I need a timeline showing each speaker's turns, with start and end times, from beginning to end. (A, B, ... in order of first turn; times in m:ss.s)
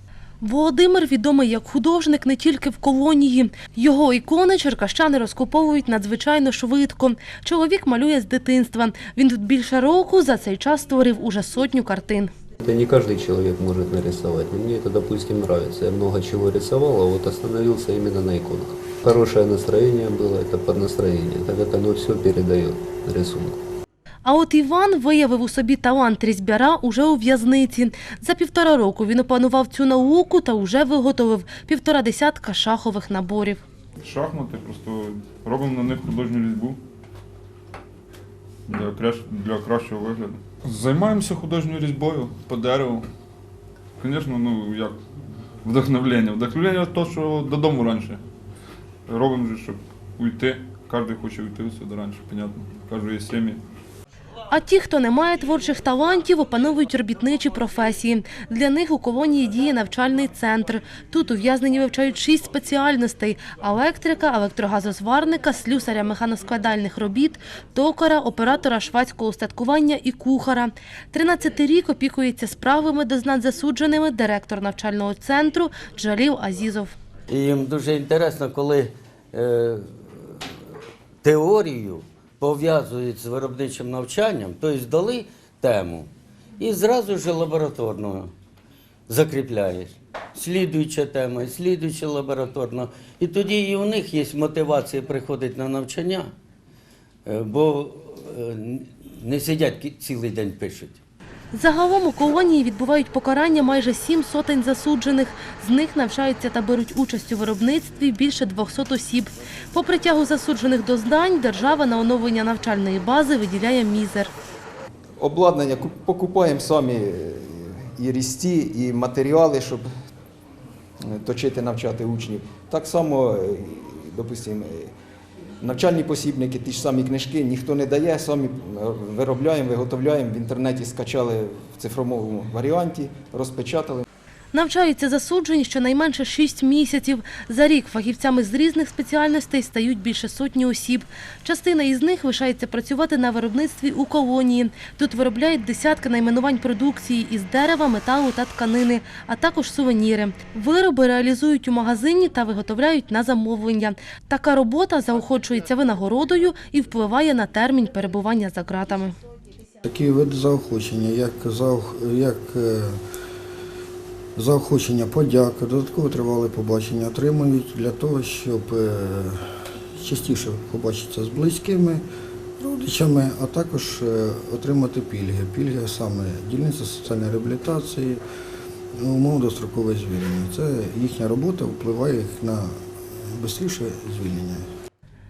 0:00.4-0:12.3 A
0:12.6-0:23.6 B
0:24.2-0:33.6 A
0:34.0-0:36.8 C
0:38.7-0:43.0 C
0:44.0-0:45.0 C
0:45.6-0:48.2 C
0:49.1-0:53.6 C
0:54.5-1:17.0 A
1:17.3-1:20.5 D
1:21.2-1:28.3 D
1:29.1-1:36.3 D
1:37.2-1:41.0 D
1:41.5-1:54.3 A
1:55.2-1:59.8 E
2:01.0-2:04.9 E
2:05.6-2:14.0 E
2:14.5-2:39.1 A
2:39.8-2:43.0 F
2:44.4-2:52.0 F
2:52.6-2:58.2 F
2:59.0-3:04.6 F